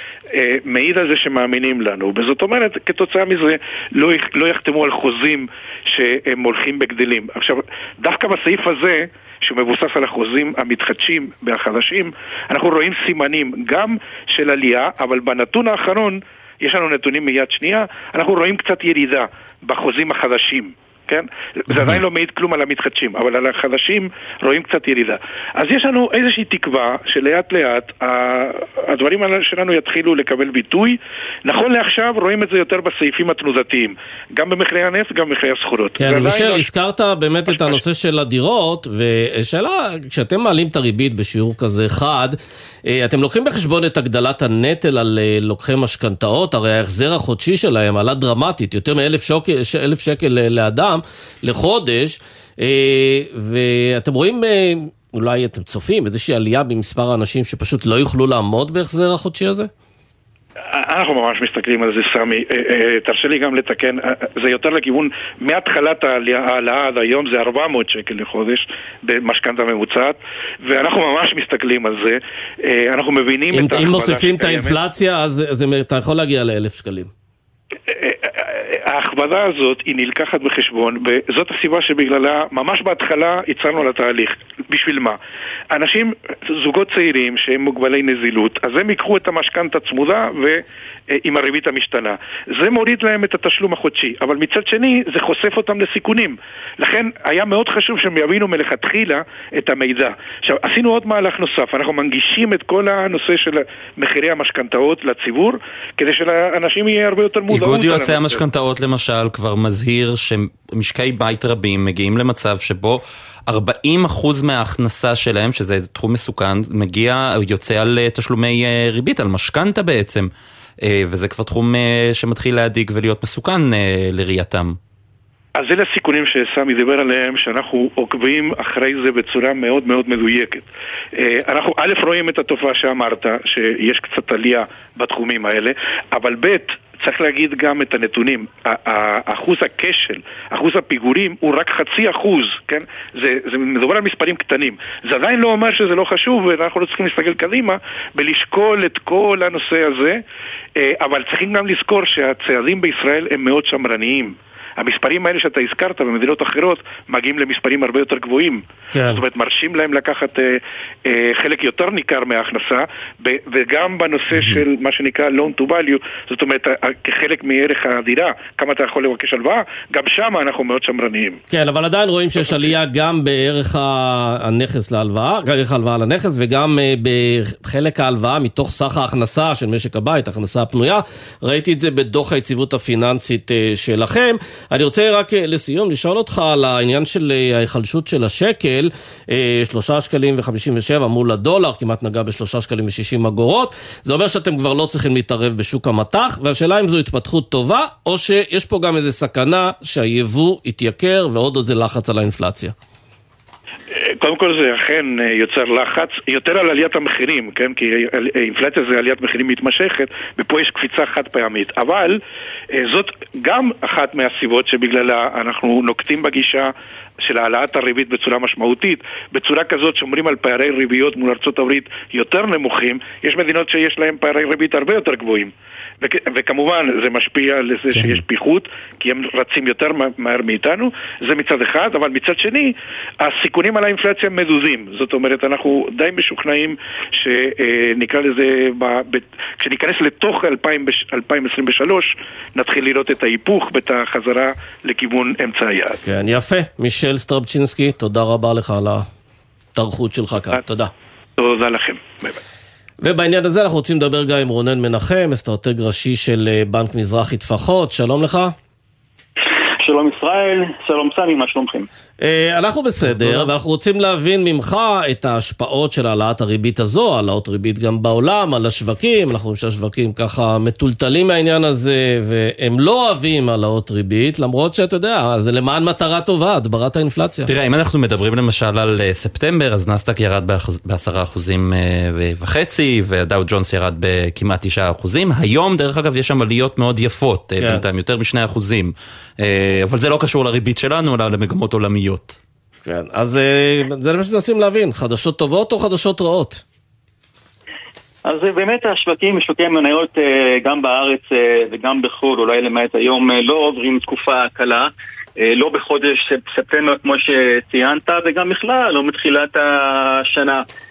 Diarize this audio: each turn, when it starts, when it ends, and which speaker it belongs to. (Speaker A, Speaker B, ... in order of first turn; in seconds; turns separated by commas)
Speaker A: 0.3-36.7, Speaker B: 21.7-22.0, Speaker C: 36.0-59.7, Speaker A: 37.5-37.8, Speaker A: 60.7-74.8, Speaker C: 73.5-77.1, Speaker A: 77.9-85.2, Speaker A: 85.7-108.4, Speaker B: 107.5-120.3, Speaker B: 120.8-124.8, Speaker A: 125.6-150.2, Speaker A: 150.8-171.4, Speaker C: 158.9-159.2, Speaker C: 171.5-202.7, Speaker A: 203.9-212.2, Speaker A: 212.7-216.7, Speaker A: 217.2-246.0, Speaker B: 227.9-228.2, Speaker C: 246.0-249.1, Speaker C: 249.8-250.9, Speaker A: 251.4-252.4, Speaker C: 253.0-258.6, Speaker D: 259.8-261.9, Speaker C: 262.2-277.5, Speaker B: 277.5-292.4, Speaker C: 292.9-296.6, Speaker D: 298.3-304.9, Speaker D: 305.4-310.6